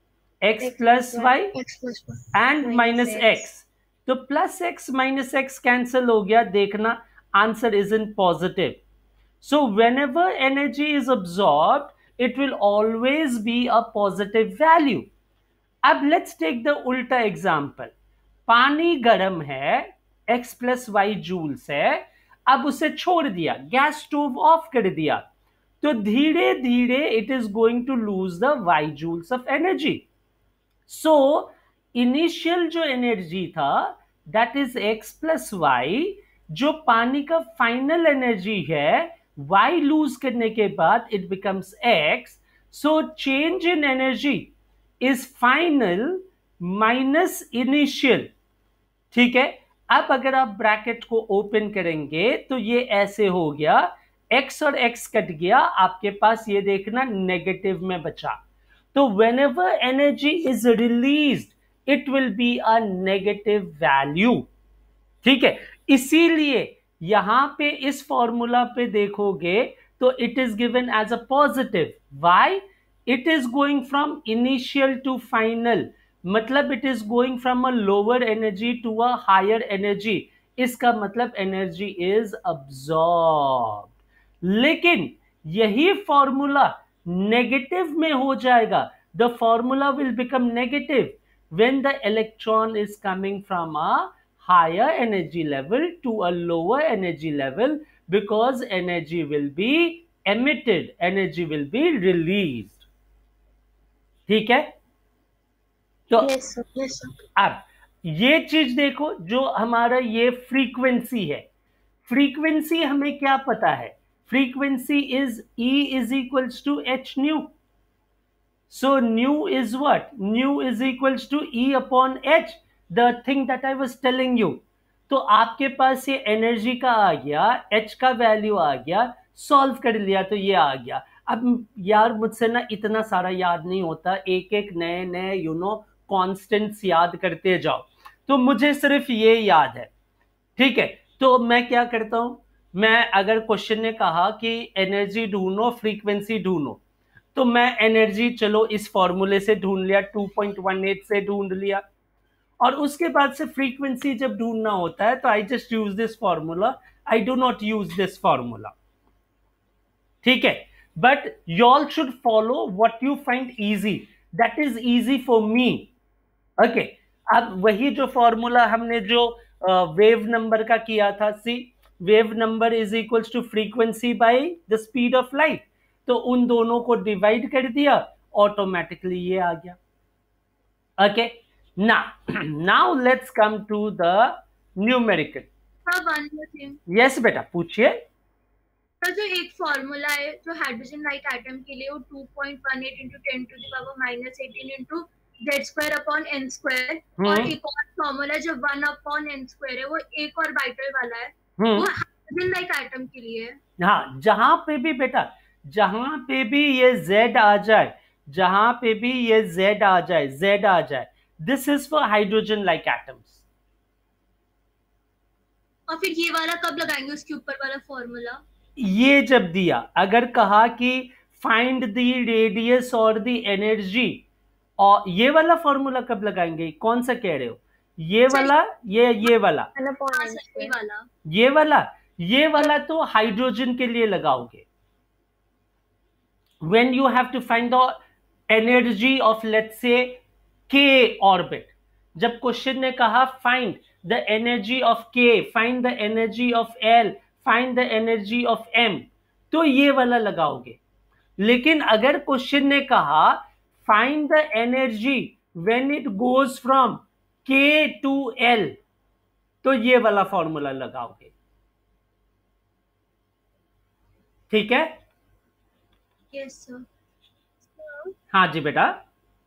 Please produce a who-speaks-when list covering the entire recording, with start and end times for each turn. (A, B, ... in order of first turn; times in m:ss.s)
0:00.4-0:01.5 A
0:00.6-0:03.5 B
0:02.3-0:08.8 A
0:09.4-0:15.1 A
0:15.8-0:17.9 A
0:18.5-0:25.2 A
0:25.8-0:30.0 A
0:30.9-0:48.3 A
0:49.1-0:58.4 A
0:58.9-1:04.5 A
1:05.2-1:23.9 A
1:24.4-1:42.8 A
1:44.3-1:44.7 A
1:46.2-1:47.1 B
1:47.4-1:51.4 A
1:52.0-1:57.5 A
1:58.7-2:19.9 A
2:20.6-2:26.8 A
2:27.3-2:31.8 A
2:32.6-2:38.7 A
2:40.2-2:45.9 A
2:46.6-2:59.8 A
3:01.0-3:05.5 A
3:05.8-3:06.8 C
3:06.9-3:08.0 A
3:09.0-3:23.6 C
3:17.2-3:17.5 A
3:21.6-3:21.9 A
3:23.8-3:33.4 A
3:35.9-3:38.4 C
3:38.8-3:44.2 A
3:44.8-3:49.7 A
3:49.7-3:50.7 B
3:50.1-3:51.1 C
3:51.3-3:54.6 A
3:56.6-3:58.0 A
3:58.5-4:10.8 A
4:11.4-4:18.8 A
4:19.6-4:21.3 A
4:24.5-4:24.9 A
4:26.3-4:26.8 C
4:28.3-4:29.0 A